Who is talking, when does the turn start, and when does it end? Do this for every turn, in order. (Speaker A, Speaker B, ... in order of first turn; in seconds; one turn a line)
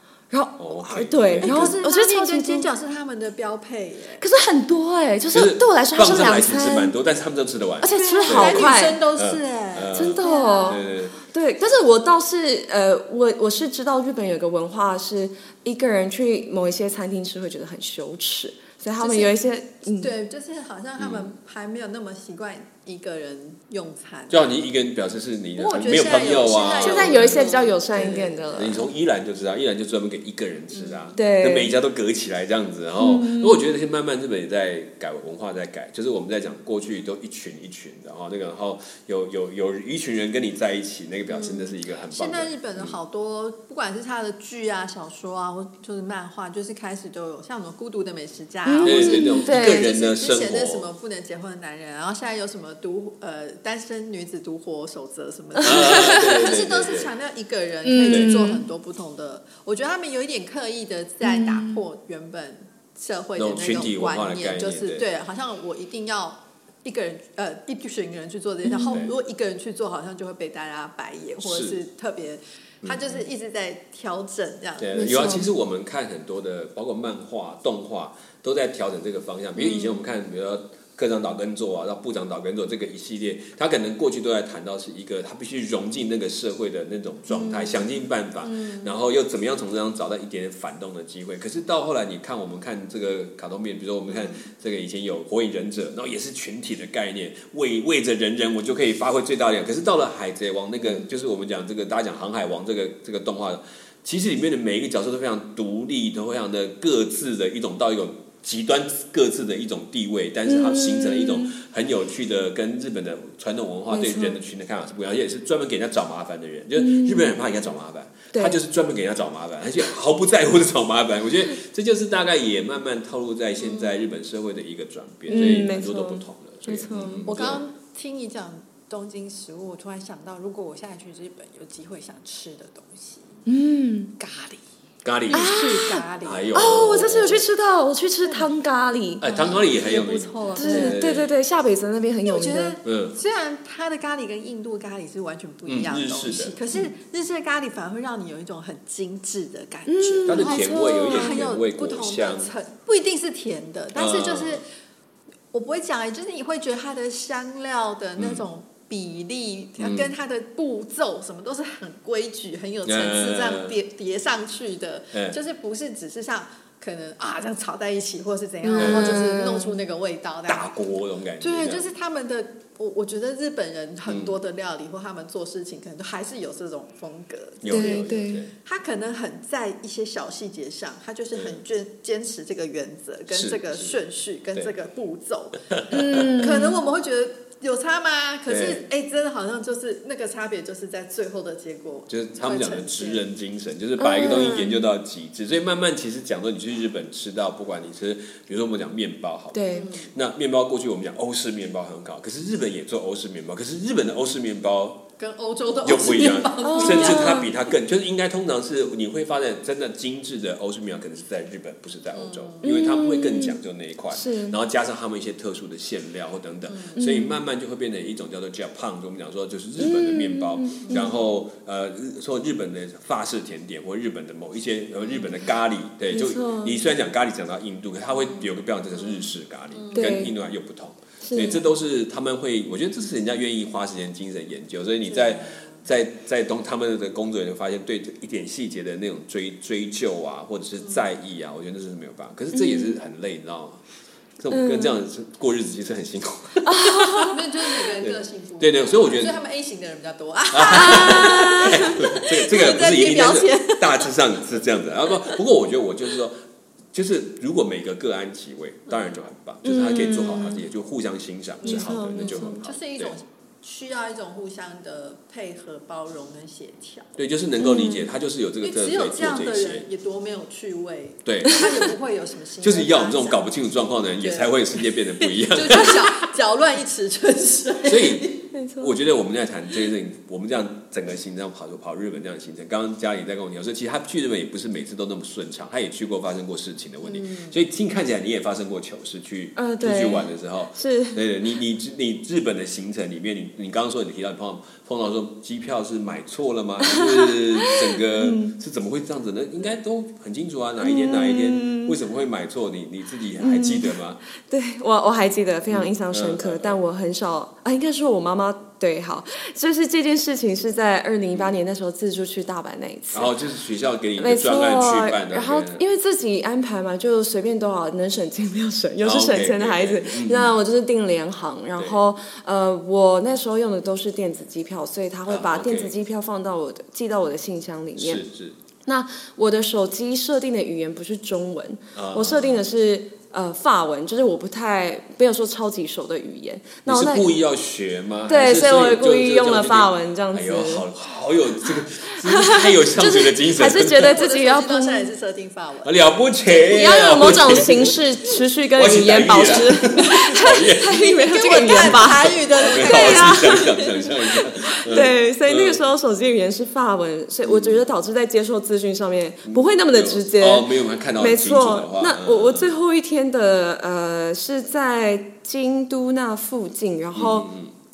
Speaker A: 0.3-2.7
Speaker B: 0.6-1.8
Speaker C: 1.4-4.2
Speaker A: 4.2-6.9
Speaker B: 5.3-11.1
Speaker A: 7.8-9.0
Speaker C: 7.9-10.9
Speaker A: 9.9-20.1
Speaker C: 19.0-19.4
Speaker C: 20.0-24.5
Speaker B: 21.0-21.3
Speaker B: 24.3-43.0
Speaker C: 25.6-28.3
Speaker A: 26.8-28.9
Speaker C: 30.7-31.1
Speaker A: 31.1-31.7
Speaker A: 33.0-33.6
Speaker C: 41.3-75.3
Speaker A: 48.6-49.9
Speaker B: 48.8-50.9
Speaker A: 55.6-56.2
Speaker B: 55.6-57.1
Speaker A: 57.8-58.6
Speaker B: 58.1-58.4
Speaker A: 61.2-61.8
Speaker B: 63.4-65.0
Speaker A: 68.6-69.1
Speaker B: 71.4-71.8
Speaker B: 72.8-73.1
Speaker B: 74.8-127.6
Speaker A: 74.9-75.5
Speaker C: 79.6-80.0
Speaker C: 87.3-87.8
Speaker C: 88.4-88.9
Speaker C: 94.1-94.4
Speaker A: 110.5-111.5
Speaker A: 113.9-114.4
Speaker A: 116.8-117.4
Speaker A: 118.3-118.6
Speaker C: 123.6-124.1
Speaker A: 125.3-127.3
Speaker C: 127.2-133.4
Speaker A: 133.4-134.1
Speaker C: 134.2-134.6
Speaker B: 135.0-135.6
Speaker C: 135.3-136.7
Speaker A: 135.3-139.3
Speaker B: 136.2-137.4
Speaker B: 139.2-141.3
Speaker C: 139.2-141.0
Speaker A: 140.6-142.8
Speaker C: 142.2-154.6
Speaker B: 142.8-143.2
Speaker B: 145.7-146.9
Speaker A: 149.9-151.4
Speaker B: 150.2-152.5
Speaker B: 153.9-154.6
Speaker C: 155.5-170.7
Speaker B: 158.2-158.4
Speaker B: 159.8-160.1
Speaker B: 162.8-163.8
Speaker A: 168.6-169.7
Speaker B: 168.8-169.2
Speaker B: 170.5-171.9
Speaker C: 171.4-178.1
Speaker B: 174.1-174.4
Speaker B: 177.6-178.5
Speaker A: 177.7-178.4
Speaker C: 178.6-193.2
Speaker B: 181.3-181.6
Speaker B: 183.3-184.0
Speaker B: 185.7-186.4
Speaker A: 185.9-186.8
Speaker B: 188.5-188.8
Speaker B: 192.1-205.1
Speaker A: 194.0-194.9
Speaker A: 199.5-199.9
Speaker C: 199.7-200.1
Speaker C: 205.2-207.6
Speaker B: 205.8-243.8
Speaker A: 206.6-207.5
Speaker C: 212.1-212.7
Speaker A: 212.6-213.6
Speaker A: 214.1-214.6
Speaker C: 216.7-216.9
Speaker A: 216.9-217.4
Speaker A: 219.8-221.2
Speaker C: 220.8-221.1
Speaker A: 226.1-226.8
Speaker C: 229.0-230.2
Speaker A: 229.9-230.3
Speaker A: 231.2-231.7
Speaker C: 235.1-235.7
Speaker A: 242.5-243.0
Speaker B: 244.4-247.4
Speaker A: 244.5-245.0
Speaker A: 246.6-247.4
Speaker C: 247.2-254.1
Speaker B: 247.9-249.4
Speaker B: 250.5-256.4
Speaker A: 250.7-252.1
Speaker B: 256.9-263.1
Speaker A: 259.6-260.6
Speaker C: 261.6-267.1
Speaker A: 261.6-262.7
Speaker B: 267.2-269.9
Speaker A: 267.6-268.1
Speaker C: 268.6-273.4
Speaker B: 271.2-271.8
Speaker B: 272.6-276.3
Speaker C: 274.2-278.4
Speaker B: 277.8-304.2
Speaker A: 278.5-278.9
Speaker C: 287.1-287.5
Speaker A: 289.6-291.2
Speaker A: 296.8-298.6
Speaker A: 300.8-302.0
Speaker A: 303.4-313.3
Speaker B: 305.7-306.8
Speaker B: 313.1-315.8
Speaker A: 314.2-328.2
Speaker B: 319.0-320.6
Speaker B: 325.3-325.9
Speaker B: 328.0-328.6
Speaker A: 328.9-337.3
Speaker B: 331.9-332.6
Speaker B: 336.9-344.2
Speaker A: 338.3-340.9
Speaker A: 342.2-345.1
Speaker C: 343.9-346.0
Speaker B: 345.8-348.0
Speaker A: 346.6-353.8
Speaker B: 348.7-355.8
Speaker C: 350.9-353.9
Speaker A: 354.6-367.5
Speaker B: 357.4-357.8
Speaker B: 359.5-362.8
Speaker B: 367.1-367.7